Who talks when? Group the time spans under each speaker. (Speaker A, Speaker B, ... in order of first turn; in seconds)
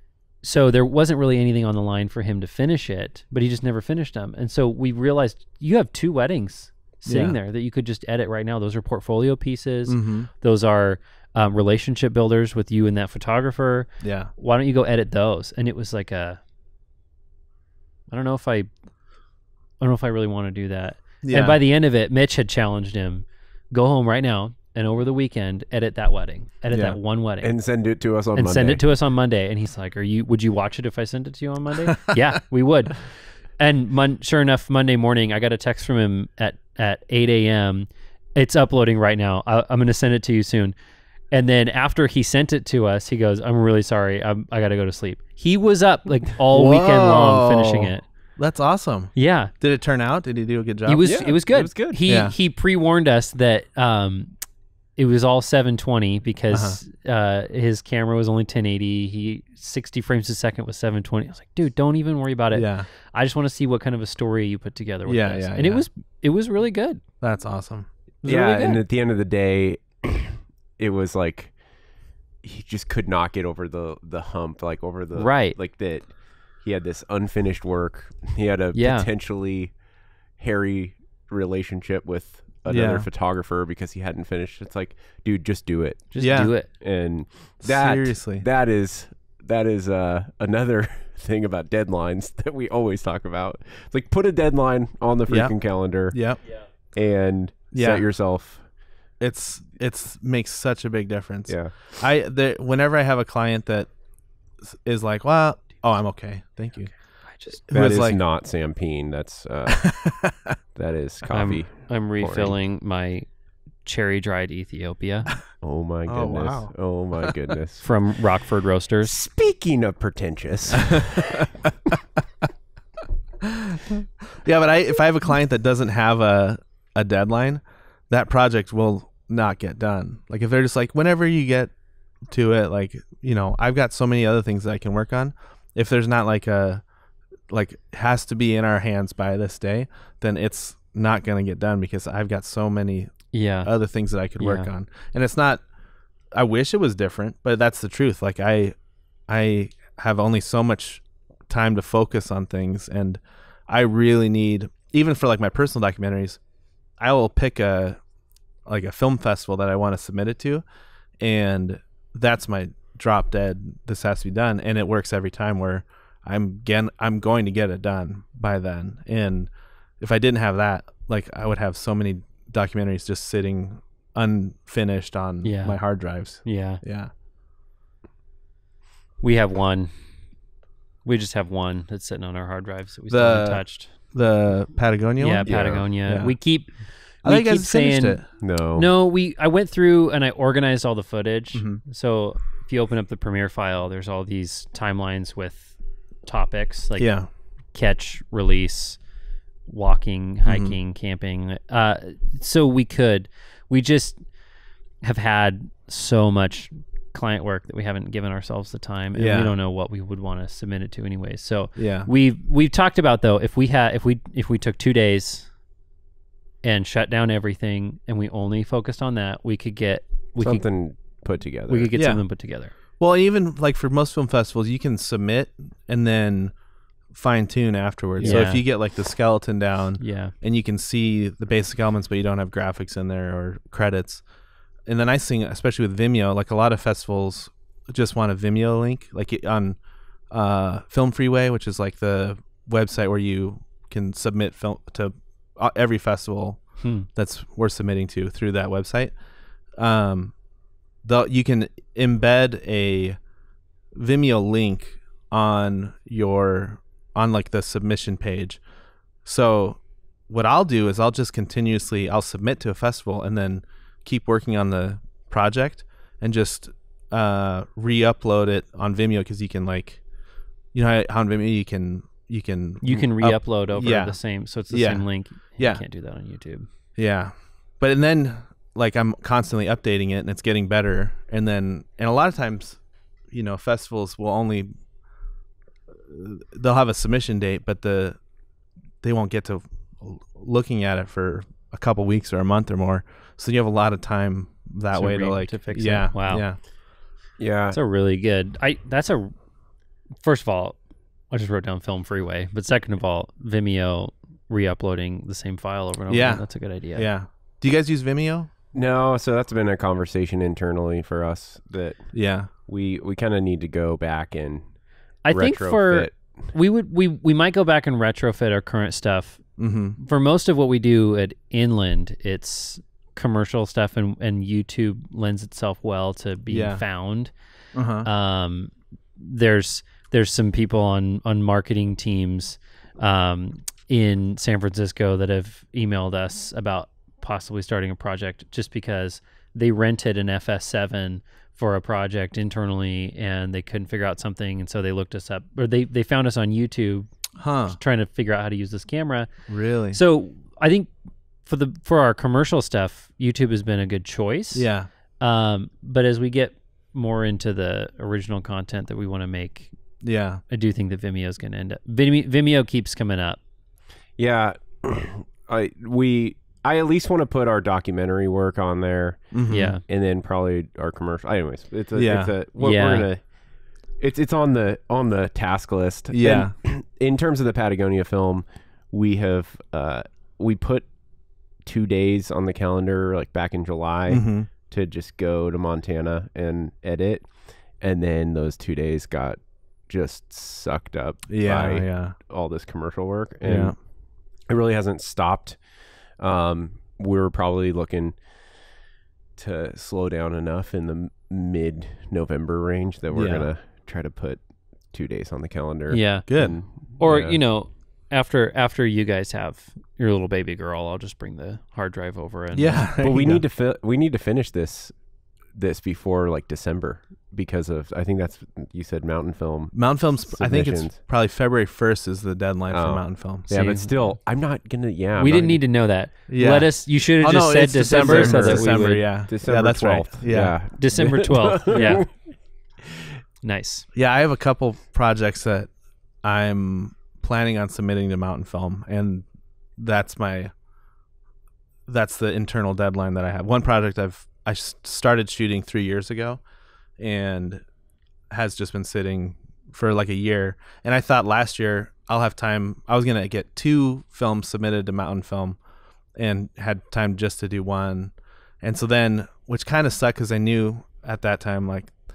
Speaker A: 0.4-16.4, 18.1-18.7, 19.8-27.6, 28.3-40.8, 41.3-48.0, 49.1-49.5, 50.9-54.3, 55.0-67.0, 75.2-75.6, 78.8-79.1, 86.1-86.7, 107.3-107.6, 111.3-113.3, 113.8-115.3, 117.8-119.2, 143.3-143.7, 144.4-144.7, 175.4-176.8, 179.2-179.9, 181.1-183.9, 185.2-197.2, 197.7-199.0, 199.7-204.2, 205.0-215.5, 216.6-220.7, 221.7-222.7, 228.2-228.7, 230.0-230.3, 246.8-247.1, 272.8-276.7, 294.9-296.5, 297.7-299.3, 300.2-300.8, 301.3-307.1, 315.2-327.3, 328.0-347.1, 347.7-349.3, 349.9-350.9, 351.4-354.7, 355.2-359.7, 360.5-363.4, 369.5-369.8, 372.6-373.1, 405.9-406.3, 407.0-412.9, 423.5-424.1, 425.2-429.1, 430.8-432.1, 433.4-433.9
Speaker B: 7.1-7.4, 9.9-10.3, 14.0-14.3, 21.2-21.6, 26.7-27.0, 46.5-51.1, 52.1-52.3, 56.5-56.8, 62.5-62.9, 65.1-65.8, 67.2-68.8, 82.7-83.1, 86.2-86.5, 87.6-88.5, 95.3-95.5, 96.1-96.4, 97.7-98.0, 99.2-103.9, 104.8-106.9, 107.7-108.2, 109.8-110.5, 116.1-116.7, 123.6-131.7, 132.3-136.8, 137.5-145.6, 146.3-148.8, 149.3-156.4, 157.0-158.0, 158.7-160.6, 161.2-177.1, 183.1-186.4, 187.2-188.2, 191.5-191.8, 197.0-197.3, 200.5-200.8, 209.2-209.5, 211.8-212.1, 222.0-222.2, 223.0-226.5, 227.1-234.2, 234.9-239.8, 240.3-249.1, 249.8-250.3, 251.0-253.2, 253.9-258.6, 259.2-270.0, 270.7-274.2, 274.7-275.1, 275.6-275.8, 277.0-282.8, 283.3-284.7, 286.1-288.2, 289.0-296.6, 306.1-308.5, 312.1-312.5, 319.6-320.0, 326.5-326.8, 327.7-328.1, 347.4-347.8, 349.5-350.0, 354.5-354.9, 360.0-360.4, 369.3-369.8, 371.9-372.3, 376.1-376.5, 384.1-384.5, 391.3-392.2, 393.4-393.8, 403.1-403.5, 406.3-406.6, 412.5-413.4, 419.7-423.5, 426.3-426.7, 427.2-430.6, 433.9-435.7, 436.2-440.5, 441.9-446.4, 447.0-447.6, 448.3-455.6, 456.2-461.9
Speaker C: 27.4-28.8, 51.0-52.0, 68.2-71.5, 72.4-79.8, 80.4-96.3, 96.9-98.7, 101.5-101.8, 107.7-110.1, 110.8-112.6, 115.6-117.8, 119.0-121.5, 185.4-185.8, 188.4-188.9, 220.4-221.9, 228.2-228.5, 297.4-297.8, 308.7-312.1, 312.7-314.7, 315.3-316.2, 364.2-373.2, 374.0-380.9, 381.6-393.9, 394.4-398.2, 399.4-407.4, 413.0-414.9, 415.5-421.0, 422.7-425.6, 427.9-432.1